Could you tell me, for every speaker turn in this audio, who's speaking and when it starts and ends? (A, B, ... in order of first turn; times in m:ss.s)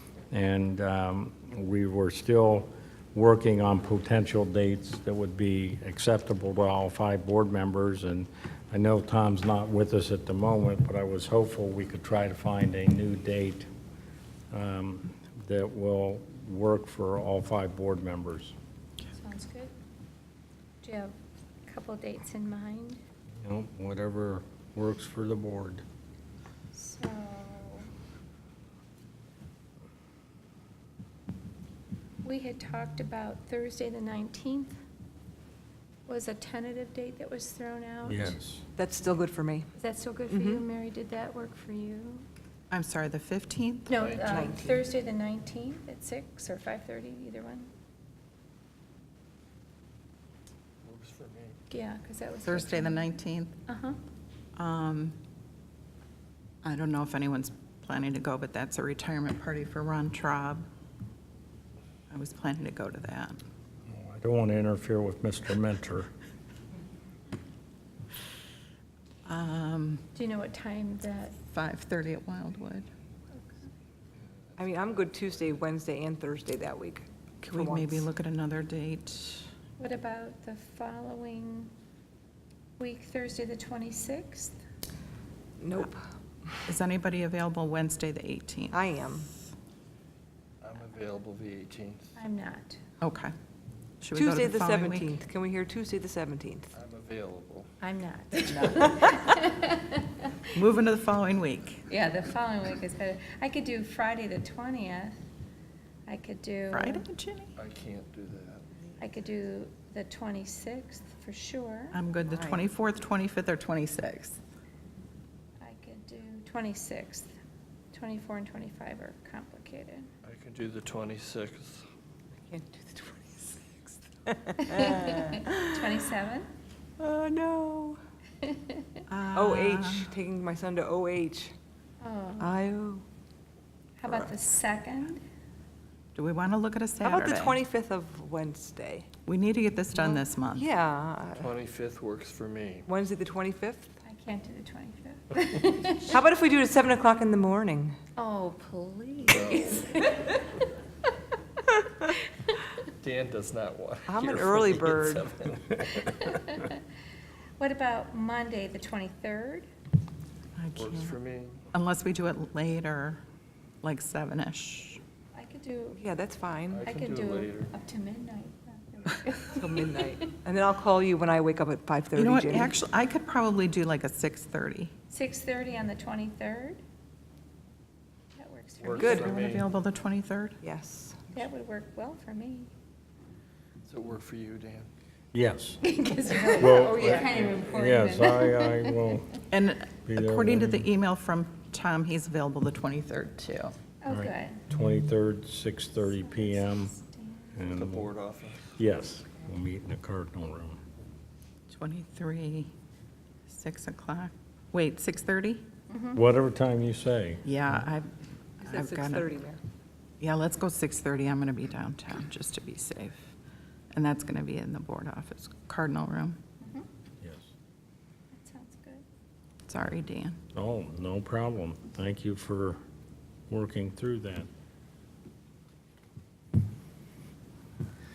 0:00.3-0:13.7 A
0:14.5-0:18.5 A
0:19.2-0:19.7 B
0:20.8-0:21.1 B
0:21.7-0:23.0 B
0:23.4-0:25.8 A
0:26.7-0:27.9 B
0:32.2-0:34.8 B
0:36.1-0:38.4 B
0:38.1-0:38.6 A
0:38.8-0:39.7 C
0:39.8-0:42.2 B
0:40.3-0:40.6 C
0:42.7-0:44.0 D
0:43.9-0:47.7 B
0:44.0-0:44.6 E
0:44.3-0:44.8 C
0:50.8-0:51.6 E
0:51.7-0:53.2 B
0:52.4-0:53.6 D
0:53.7-0:54.0 B
0:54.6-0:55.2 D
0:56.6-1:00.6 D
1:02.1-1:03.4 D
1:03.9-1:06.1 A
1:09.2-1:10.1 D
1:10.1-1:11.4 B
1:11.4-1:12.9 D
1:13.3-1:13.6 B
1:14.6-1:18.0 C
1:17.4-1:19.5 D
1:19.8-1:21.7 B
1:22.8-1:24.6 B
1:25.6-1:26.0 C
1:26.6-1:28.8 D
1:28.7-1:29.3 C
1:30.6-1:32.1 E
1:32.2-1:32.8 B
1:33.0-1:33.3 D
1:34.0-1:35.1 D
1:34.1-1:36.7 C
1:36.7-1:37.7 E
1:37.8-1:40.5 B
1:38.5-1:38.9 D
1:40.5-1:41.9 D
1:41.9-1:45.2 B
1:46.1-1:47.0 B
1:46.7-1:47.5 D
1:47.6-1:48.8 E
1:49.0-1:52.0 B
1:51.9-1:54.4 D
1:52.3-1:52.7 C
1:55.6-1:57.3 B
1:57.9-2:00.1 B
2:00.2-2:01.8 E
2:02.4-2:06.0 C
2:04.7-2:06.5 B
2:07.0-2:08.0 C
2:08.4-2:09.0 B
2:09.1-2:10.1 D
2:09.3-2:11.5 C
2:12.0-2:12.6 B
2:12.4-2:13.0 C
2:14.0-2:15.2 B
2:14.0-2:14.3 C
2:16.1-2:17.6 D
2:17.0-2:19.1 C
2:19.2-2:20.6 D
2:19.9-2:21.5 C
2:21.4-2:22.9 E
2:22.8-2:24.0 C
2:24.0-2:26.2 B
2:26.1-2:28.0 C
2:28.2-2:30.6 B
2:29.2-2:29.9 E
2:32.0-2:32.8 B
2:33.0-2:36.6 E
2:34.1-2:35.3 C
2:36.0-2:36.8 B
2:37.6-2:39.7 B
2:40.6-2:41.2 D
2:40.8-2:41.6 E
2:41.7-2:43.2 D
2:43.8-2:45.0 D
2:45.3-2:46.0 B
2:46.0-2:46.8 C
2:46.7-2:47.7 E
2:46.8-2:50.3 B
2:49.5-2:52.7 C
2:52.1-2:54.9 D
2:55.1-2:56.8 B
2:58.3-2:59.3 B
2:58.8-2:59.7 E
2:59.0-2:59.3 C
2:59.0-3:00.6 D
3:00.6-3:01.3 C
3:01.3-3:02.7 B
3:03.8-3:04.9 E
3:05.3-3:05.8 A
3:05.8-3:09.1 B
3:06.5-3:09.4 A
3:06.6-3:07.7 E
3:09.5-3:13.7 D
3:10.1-3:10.9 A
3:14.0-3:14.6 B
3:14.1-3:16.9 A
3:16.0-3:17.6 B
3:17.5-3:18.1 A
3:17.6-3:18.8 E
3:18.8-3:20.8 A
3:21.7-3:22.7 D
3:23.5-3:25.6 D
3:25.9-3:26.2 B
3:26.1-3:27.4 A
3:27.4-3:29.3 D
3:28.6-3:29.6 C
3:30.2-3:33.3 D
3:33.9-3:36.4 D
3:36.6-3:36.9 B
3:37.2-3:37.5 A
3:38.3-3:39.0 B
3:39.7-3:40.4 D
3:40.5-3:42.8 A
3:43.5-3:44.5 A